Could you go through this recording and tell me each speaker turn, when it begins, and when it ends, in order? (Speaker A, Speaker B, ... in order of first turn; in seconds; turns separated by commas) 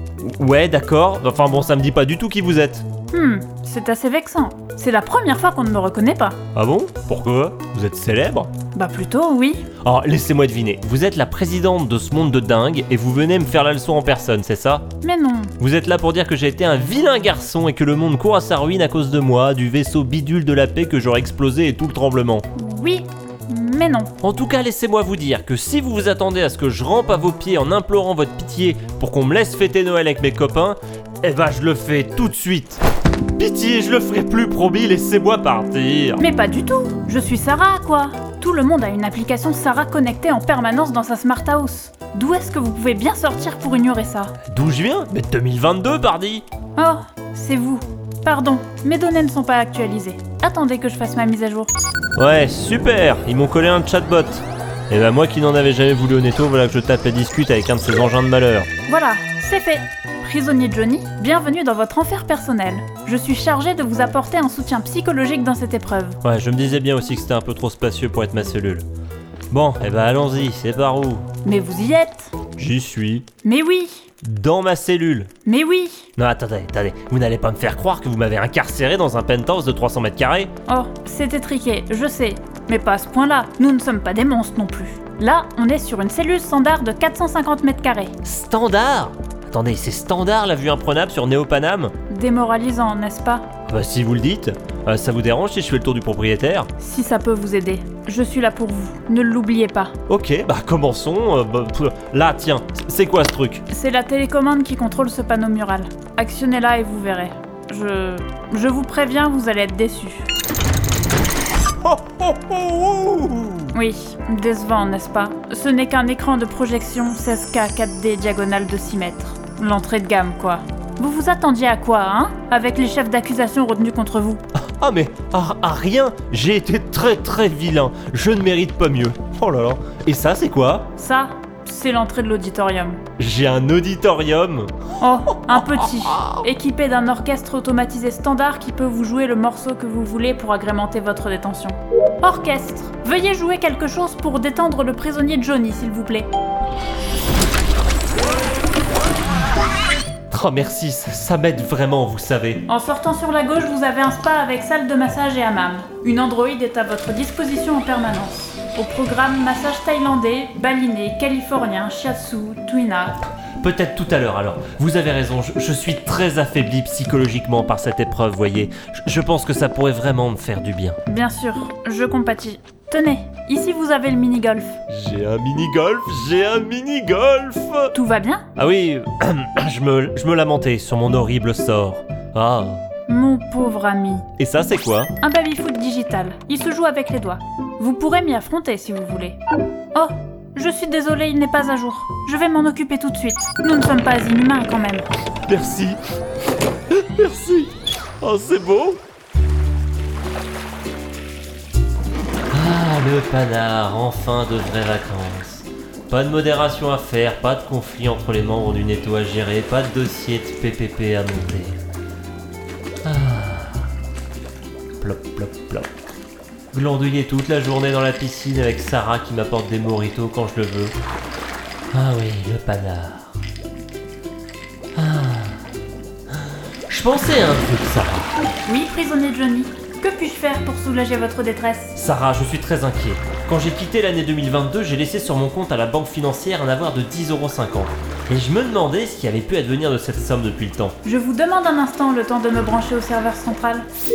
Speaker A: 0.2-2.9, Speaker B: 3.1-6.4, Speaker A: 6.5-8.5, Speaker B: 8.7-9.7, Speaker A: 9.8-14.9, Speaker B: 15.0-15.5, Speaker A: 15.6-22.4, Speaker B: 22.5-24.1, Speaker A: 24.2-32.8, Speaker A: 33.4-36.2, Speaker B: 36.2-44.3, Speaker A: 44.5-46.4, Speaker B: 46.8-51.7, Speaker A: 52.2-58.7, Speaker B: 58.9-66.2, Speaker A: 66.2-68.8, Speaker A: 69.5-71.2, Speaker B: 71.4-72.3, Speaker A: 72.6-73.2, Speaker B: 73.4-74.1, Speaker A: 74.2-75.3, Speaker B: 75.4-76.1, Speaker A: 76.2-80.5, Speaker B: 80.7-88.1, Speaker A: 88.2-91.9, Speaker B: 92.1-93.5, Speaker A: 93.7-96.7, Speaker B: 96.8-99.9, Speaker A: 100.1-103.6, Speaker B: 103.7-110.3, Speaker A: 111.8-113.7, Speaker B: 113.7-124.4, Speaker A: 124.8-130.9, Speaker B: 131.0-133.0, Speaker A: 133.2-136.4, Speaker B: 135.0-146.3, Speaker A: 150.3-152.6, Speaker B: 152.7-163.2, Speaker A: 163.6-171.0, Speaker B: 171.1-174.8, Speaker A: 174.9-177.9, Speaker B: 177.9-178.4, Speaker A: 178.6-182.8, Speaker B: 183.1-184.3, Speaker A: 184.4-185.1, Speaker B: 185.2-189.4, Speaker B: 189.9-195.1, Speaker A: 195.5-196.0, Speaker A: 196.9-197.7, Speaker A: 198.2-199.0, Speaker A: 202.5-211.8, Speaker A: 213.0-213.9, Speaker A: 215.0-215.9, Speaker A: 216.7-220.9, Speaker A: 221.9-223.4, Speaker A: 224.9-225.6, Speaker A: 226.9-228.6, Speaker B: 228.6-231.9, Speaker A: 231.9-240.9, Speaker B: 241.0-243.8